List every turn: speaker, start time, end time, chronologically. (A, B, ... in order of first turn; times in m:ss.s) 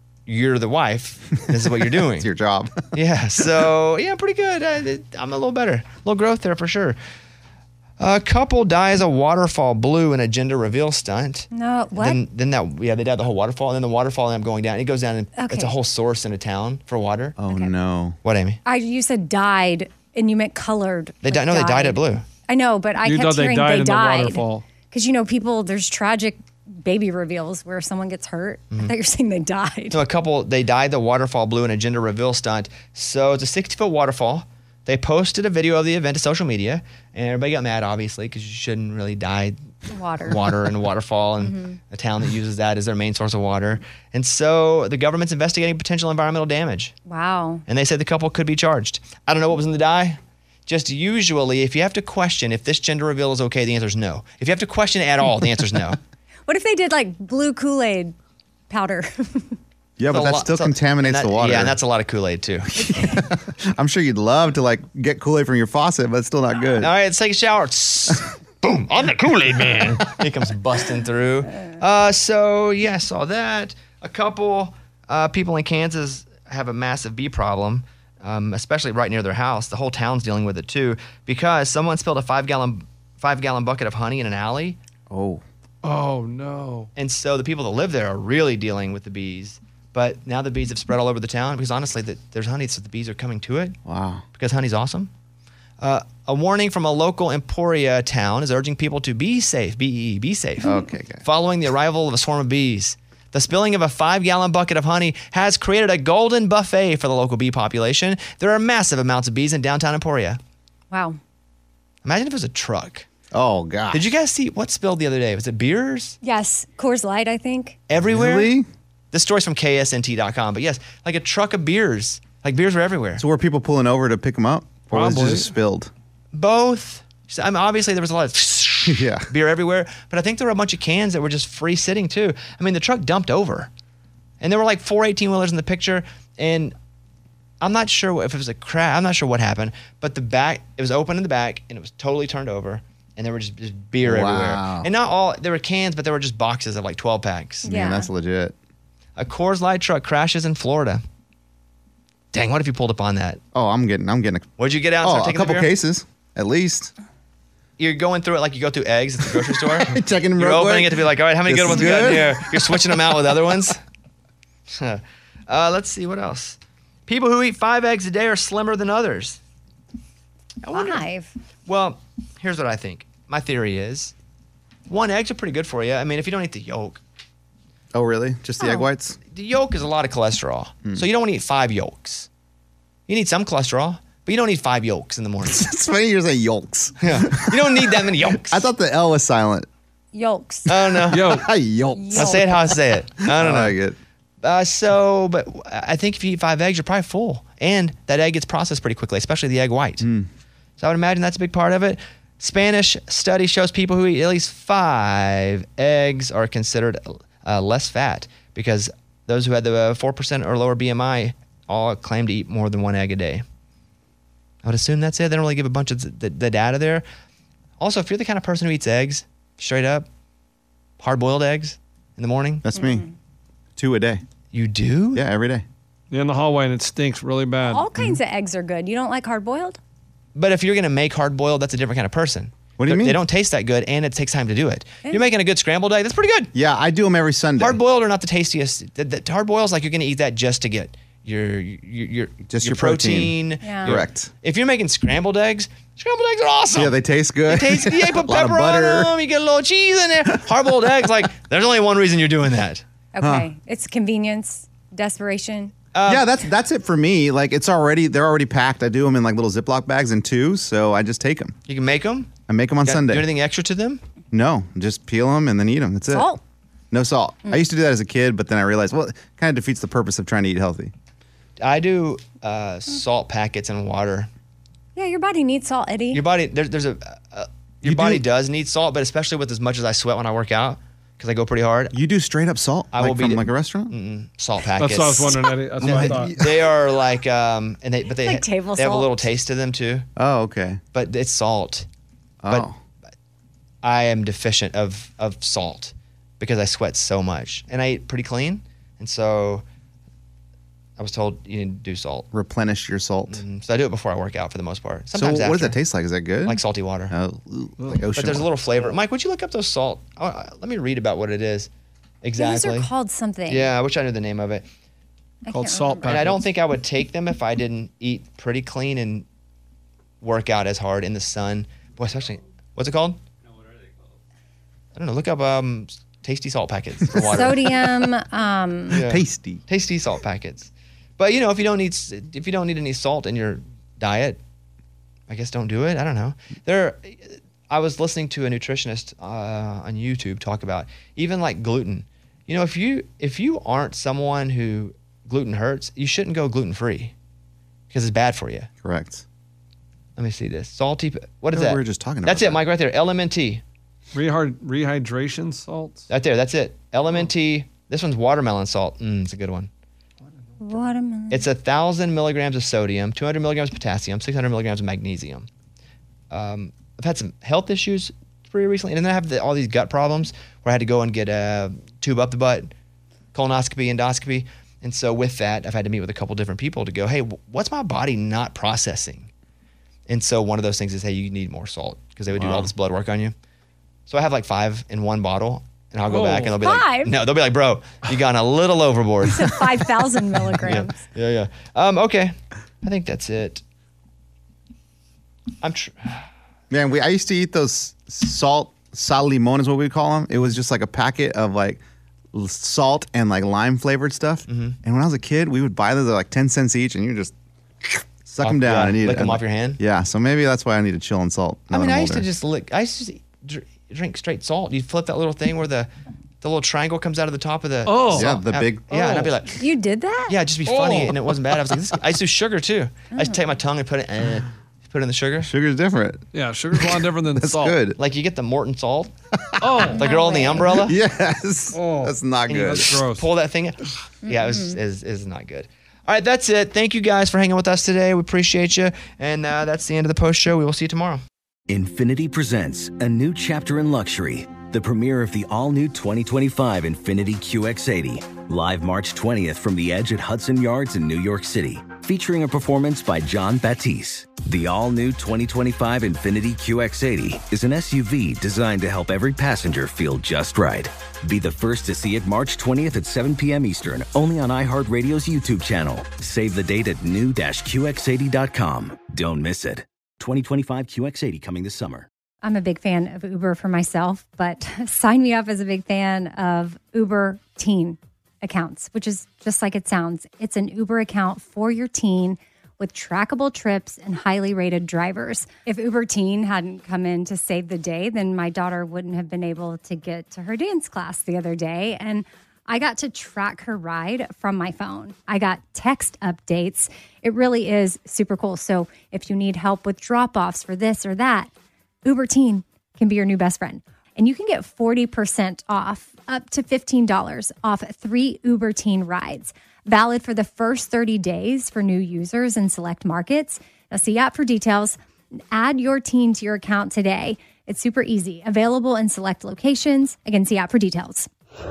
0:00.3-0:02.3 A
0:02.1-0:02.9 B
0:02.9-0:07.0 A
0:08.0-0:17.4 A
0:11.5-0:12.2 C
0:15.4-0:15.7 C
0:17.4-0:18.2 B
0:18.2-0:18.6 A
0:18.7-0:30.0 C
0:21.2-0:22.2 A
0:23.0-0:24.6 D
0:29.9-0:39.6 A
0:39.9-0:40.4 C
0:40.2-0:46.9 A
0:41.4-0:41.8 C
0:47.1-0:47.6 C
0:47.7-0:56.0 A
0:56.5-0:58.2 C
0:58.7-0:59.6 C
1:00.0-1:01.8 B
1:00.1-1:02.9 A
1:02.8-1:06.9 B
1:06.8-1:24.8 A
1:25.1-1:25.4 B
1:25.8-1:26.9 D
1:27.0-1:33.8 A
1:33.9-1:34.2 B
1:34.4-1:35.1 A
1:35.8-1:50.4 A
1:40.6-1:41.2 B
1:50.9-1:51.2 C
1:52.0-1:53.1 A
1:53.3-1:54.1 B
1:53.9-1:56.2 A
1:56.2-1:57.8 C
1:57.9-1:58.6 A
1:58.0-1:58.7 B
1:59.1-2:03.2 A
2:03.2-2:05.9 B
2:04.9-2:05.5 D
2:06.3-2:13.7 A
2:08.9-2:09.3 B
2:14.4-2:16.7 A
2:17.6-2:27.7 A
2:24.0-2:24.9 B
2:27.6-2:28.6 B
2:27.6-2:28.1 C
2:29.2-2:31.0 A
2:32.3-2:33.4 A
2:33.5-2:34.5 B
2:34.6-2:35.7 A
2:35.0-2:36.9 B
2:37.8-2:43.8 A
2:39.8-2:42.8 B
2:44.7-2:49.4 A
2:50.6-2:51.0 A
2:50.7-2:51.3 C
2:51.7-2:54.1 A
2:54.9-2:57.0 A
2:57.9-2:59.2 B
2:58.6-2:58.9 C
2:59.3-3:02.3 A
3:03.1-3:05.7 A
3:05.4-3:09.7 B
3:07.0-3:08.7 A
3:10.1-3:10.7 C
3:10.7-3:11.3 A
3:11.1-3:12.7 B
3:11.1-3:11.5 D
3:11.9-3:12.4 C
3:12.1-3:13.8 A
3:13.3-3:14.0 B
3:14.4-3:20.0 A
3:20.0-3:20.3 B
3:20.8-3:33.4 A
3:34.6-3:37.0 A
3:37.8-3:40.1 A
3:41.0-3:42.7 A
3:42.6-3:43.1 B
3:42.8-3:43.1 C
3:43.8-3:44.2 B
3:44.5-3:45.2 A
3:45.1-3:45.6 B
3:46.1-3:47.9 D
3:47.6-3:49.8 C
3:50.4-3:56.5 A
3:52.8-3:53.2 B
3:56.5-3:57.8 B
3:57.6-4:07.0 A
4:02.5-4:04.3 B
4:03.6-4:03.9 C
4:06.7-4:09.1 B
4:07.5-4:12.8 A
4:13.1-4:15.7 C
4:13.2-4:13.5 B
4:15.9-4:16.3 A
4:16.1-4:21.6 B
4:21.7-4:22.3 A
4:22.5-4:23.3 B
4:22.8-4:24.0 A
4:24.3-4:26.3 B
4:26.1-4:26.4 C
4:26.9-4:30.9 B
4:31.6-4:34.3 A
4:35.0-4:36.2 C
4:36.1-4:41.9 A
4:37.8-4:38.2 B
4:41.9-4:43.9 B
4:42.9-4:50.1 A
4:44.8-4:46.5 D
4:45.8-4:46.4 B
4:48.2-4:49.1 C
4:50.2-4:50.8 B
4:50.9-4:51.9 A
4:52.4-4:52.8 B
4:53.8-4:59.6 A
5:01.0-5:02.3 A
5:02.3-5:03.4 B
5:03.3-5:05.8 A
5:05.2-5:08.5 B
5:06.4-5:07.1 A
5:08.2-5:11.7 A
5:12.2-5:12.9 A
5:12.4-5:13.7 C
5:13.5-5:14.7 A
5:15.5-5:16.2 C
5:15.5-5:16.4 D
5:16.0-5:19.3 A
5:20.2-5:23.2 A
5:25.0-5:27.8 A
5:27.2-5:29.0 C
5:28.9-5:29.6 B
5:28.9-5:34.4 A
5:35.3-5:47.1 A
5:47.9-5:48.7 A
5:48.8-5:49.2 B
5:50.2-5:53.6 A
5:51.5-5:52.6 B
5:54.1-5:56.1 D
5:56.1-5:59.7 A
6:00.6-6:01.5 C
6:01.3-6:05.5 A
6:06.3-6:12.7 A
6:13.3-6:19.3 A
6:20.1-6:23.3 A
6:22.4-6:22.7 B
6:24.1-6:29.9 A
6:26.1-6:26.5 D
6:26.6-6:27.1 C
6:29.2-6:31.0 C
6:30.6-6:33.6 A
6:35.6-6:36.2 A
6:36.7-6:41.8 B
6:42.3-6:52.3 B
6:44.5-6:44.8 A
6:48.4-6:49.8 A
6:51.7-6:55.9 A
6:56.4-6:59.6 A
6:57.9-6:58.3 D
6:58.1-6:59.4 B
6:59.6-7:00.4 C
7:00.3-7:05.5 A
7:00.7-7:01.1 D
7:03.1-7:03.4 C
7:05.4-7:08.0 B
7:06.3-7:07.8 D
7:08.0-7:09.1 A
7:09.5-7:09.9 B
7:09.6-7:10.0 D
7:09.9-7:11.0 A
7:09.9-7:10.6 C
7:10.7-7:13.0 B
7:11.7-7:13.2 D
7:12.5-7:21.2 A
7:14.3-7:14.7 C
7:21.7-7:52.1 E
7:52.4-8:21.5 C
8:22.0-8:35.0 C
8:35.5-8:41.3 C